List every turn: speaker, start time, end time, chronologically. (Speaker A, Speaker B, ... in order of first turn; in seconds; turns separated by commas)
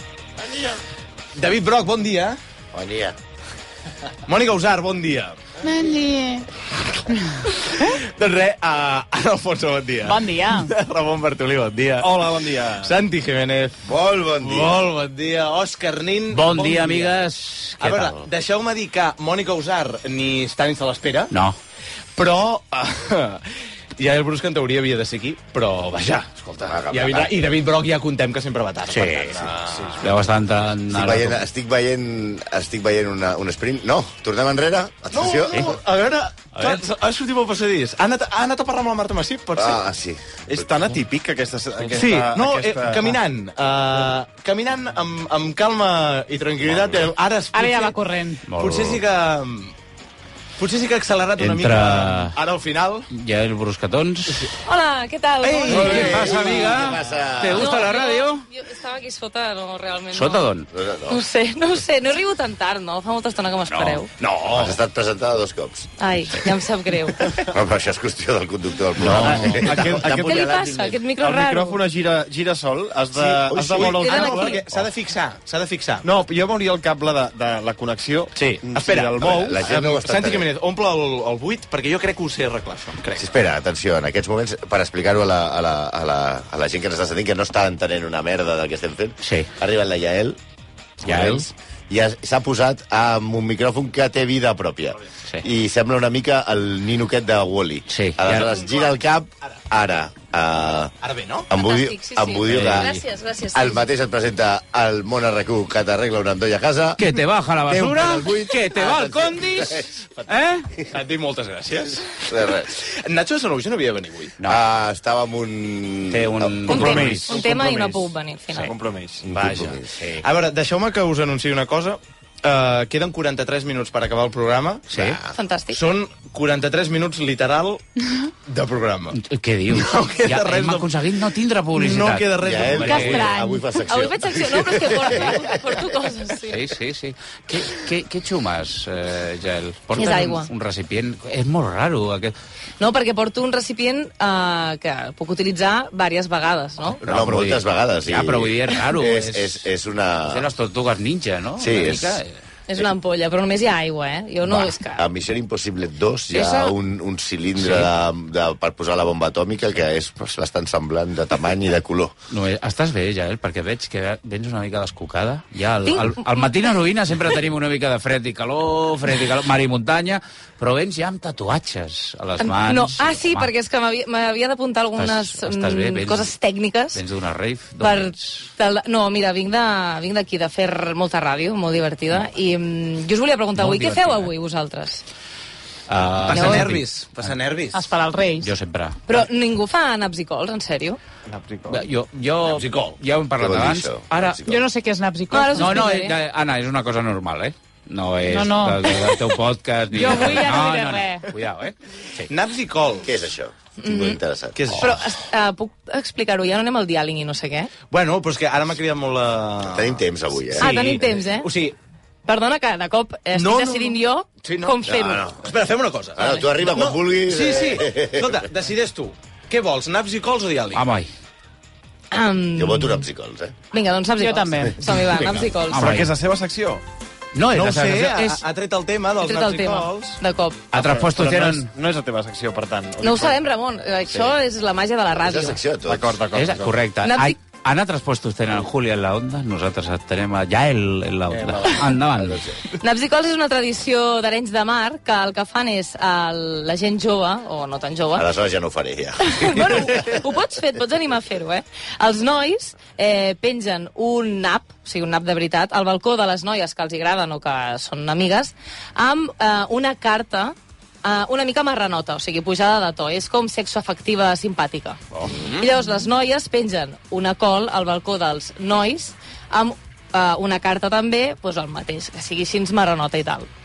Speaker A: 1.4-2.4, Speaker B: 2.7-3.2, Speaker A: 4.3-5.4, Speaker C: 5.6-6.5, Speaker A: 7.5-13.8, Speaker C: 10.0-10.7, Speaker D: 12.0-12.9, Speaker B: 13.8-14.8, Speaker A: 14.4-21.3, Speaker E: 16.3-18.2, Speaker E: 21.3-21.6, Speaker A: 22.2-23.5, Speaker A: 24.0-30.2, Speaker B: 26.7-27.5, Speaker E: 28.9-29.4, Speaker E: 30.0-31.4, Speaker B: 30.9-35.8, Speaker A: 35.1-39.8, Speaker E: 36.5-36.8, Speaker B: 39.6-40.7, Speaker D: 40.5-43.2, Speaker A: 41.9-48.0, Speaker B: 46.7-47.1, Speaker C: 47.5-48.5, Speaker E: 48.5-49.0, Speaker A: 48.5-49.7, Speaker A: 50.6-53.1, Speaker E: 51.4-52.4, Speaker E: 53.1-54.5, Speaker F: 54.6-56.9, Speaker A: 55.4-56.7, Speaker E: 55.7-58.5, Speaker B: 56.0-57.8, Speaker F: 57.5-60.5, Speaker E: 60.1-60.7, Speaker B: 60.7-61.2, Speaker F: 61.1-64.1, Speaker E: 63.7-64.8, Speaker B: 64.5-65.9, Speaker F: 66.0-67.4, Speaker B: 67.3-71.0, Speaker A: 69.1-70.1, Speaker D: 69.1-70.5, Speaker E: 69.1-69.6, Speaker F: 70.1-71.8, Speaker D: 71.2-74.5, Speaker A: 73.2-76.1, Speaker B: 73.5-74.3, Speaker F: 73.7-74.6, Speaker D: 76.0-79.6, Speaker A: 78.3-83.3, Speaker B: 79.2-80.5, Speaker B: 83.2-90.4, Speaker E: 89.2-89.5, Speaker B: 91.0-100.9, Speaker E: 91.0-91.5, Speaker E: 97.9-98.4, Speaker A: 101.0-101.5, Speaker B: 101.5-107.1, Speaker F: 101.5-103.8, Speaker E: 102.5-102.9, Speaker E: 107.0-110.7, Speaker B: 107.7-109.9, Speaker A: 110.9-112.2, Speaker B: 112.3-112.7, Speaker A: 112.7-114.3, Speaker B: 114.5-117.2, Speaker E: 116.1-117.5, Speaker F: 116.7-118.7, Speaker D: 116.7-117.8, Speaker D: 118.6-119.3, Speaker B: 119.2-119.9, Speaker A: 119.3-125.0, Speaker E: 124.9-125.2, Speaker B: 124.9-125.3, Speaker F: 125.3-125.8, Speaker A: 125.7-127.8, Speaker A: 128.5-129.2, Speaker E: 129.1-133.3, Speaker A: 129.7-130.9, Speaker A: 131.7-133.3, Speaker B: 132.4-135.6, Speaker F: 132.9-136.6, Speaker E: 136.5-142.3, Speaker F: 139.9-140.5, Speaker F: 142.8-147.0, Speaker E: 147.0-149.7, Speaker B: 147.0-150.5, Speaker E: 150.3-152.3, Speaker B: 151.6-152.2, Speaker F: 152.7-155.1, Speaker B: 154.4-162.1, Speaker E: 156.3-156.7, Speaker E: 157.6-157.9, Speaker E: 162.3-173.5, Speaker F: 165.9-166.2, Speaker F: 172.4-177.0, Speaker E: 175.0-176.3, Speaker E: 176.9-178.5, Speaker F: 177.8-185.0, Speaker E: 183.6-184.3, Speaker E: 185.9-187.3, Speaker A: 186.2-187.9, Speaker F: 186.3-186.6, Speaker C: 187.7-188.5, Speaker E: 188.4-189.1, Speaker F: 189.1-191.0, Speaker D: 191.3-191.8, Speaker E: 191.7-194.4, Speaker A: 192.4-193.0, Speaker B: 193.4-194.7, Speaker C: 194.2-196.1, Speaker F: 195.3-196.2, Speaker E: 195.6-202.3, Speaker C: 198.3-199.2, Speaker C: 199.9-201.3, Speaker A: 202.3-203.1, Speaker B: 203.1-204.8, Speaker F: 203.8-204.2, Speaker A: 204.6-204.9, Speaker F: 204.8-207.7, Speaker A: 207.9-211.8, Speaker B: 209.7-210.7, Speaker F: 210.6-211.5, Speaker F: 212.2-215.3, Speaker A: 213.3-214.8, Speaker B: 214.8-215.5, Speaker A: 215.4-220.9, Speaker B: 216.2-218.4, Speaker E: 220.8-221.1, Speaker F: 222.1-223.1, Speaker B: 222.6-223.6, Speaker F: 223.7-225.9, Speaker C: 224.2-225.1, Speaker E: 225.7-226.1, Speaker D: 225.7-226.8, Speaker E: 227.3-228.4, Speaker A: 227.5-230.2, Speaker F: 229.2-230.7, Speaker E: 230.7-231.7, Speaker D: 230.8-233.4, Speaker F: 233.0-235.7, Speaker B: 235.2-236.1, Speaker D: 235.8-236.8, Speaker E: 236.3-242.4, Speaker F: 237.0-237.3, Speaker A: 241.3-241.8, Speaker B: 242.2-242.6, Speaker F: 242.8-248.3, Speaker B: 248.1-250.1, Speaker F: 249.2-273.5, Speaker E: 265.1-265.5